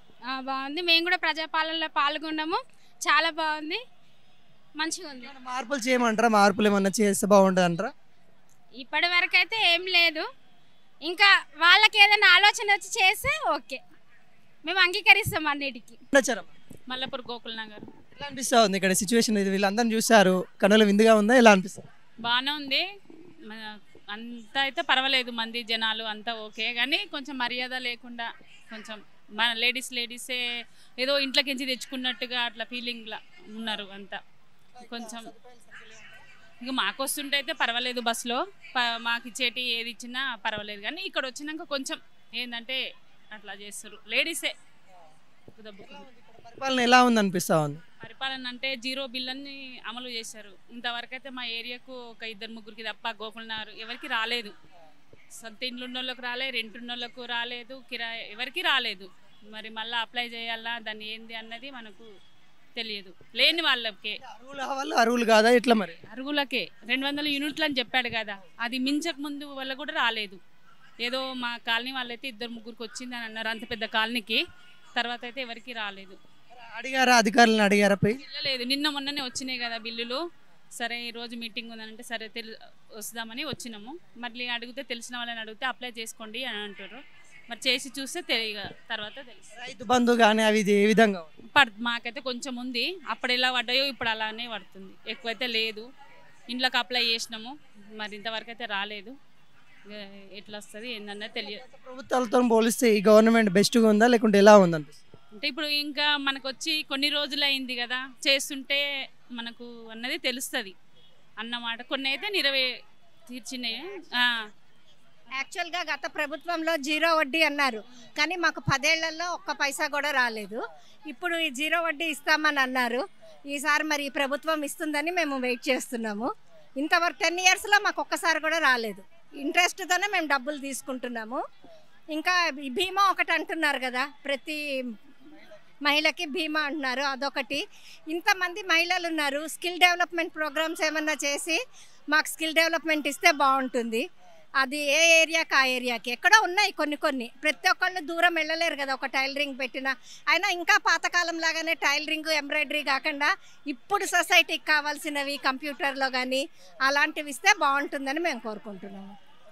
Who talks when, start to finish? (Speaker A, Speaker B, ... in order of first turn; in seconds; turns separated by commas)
Speaker A: 0.3-3.8, Speaker A: 4.8-5.3, Speaker B: 5.2-7.9, Speaker A: 8.8-10.3, Speaker A: 11.1-13.8, Speaker A: 14.7-16.0, Speaker B: 16.1-16.5, Speaker C: 16.9-17.9, Speaker B: 18.1-21.9, Speaker C: 22.2-22.9, Speaker C: 24.1-30.4, Speaker C: 31.0-34.2, Speaker B: 34.7-36.2, Speaker C: 34.8-35.3, Speaker C: 36.6-42.8, Speaker C: 43.3-44.5, Speaker C: 45.5-46.0, Speaker B: 45.8-47.8, Speaker C: 48.0-54.5, Speaker C: 55.4-62.1, Speaker C: 62.8-64.2, Speaker B: 64.2-66.0, Speaker C: 66.1-70.4, Speaker C: 71.0-74.4, Speaker C: 75.0-76.2, Speaker B: 76.7-78.2, Speaker C: 78.2-80.2, Speaker C: 80.8-82.5, Speaker C: 83.0-89.5, Speaker B: 89.6-91.3, Speaker C: 91.5-95.9, Speaker C: 96.5-99.1, Speaker C: 99.9-101.6, Speaker B: 101.5-105.0, Speaker C: 105.4-108.8, Speaker C: 109.4-110.8, Speaker C: 111.4-112.7, Speaker C: 113.3-114.3, Speaker D: 115.4-131.4, Speaker D: 132.1-134.6, Speaker D: 135.9-141.6, Speaker D: 142.1-144.1, Speaker D: 144.6-159.1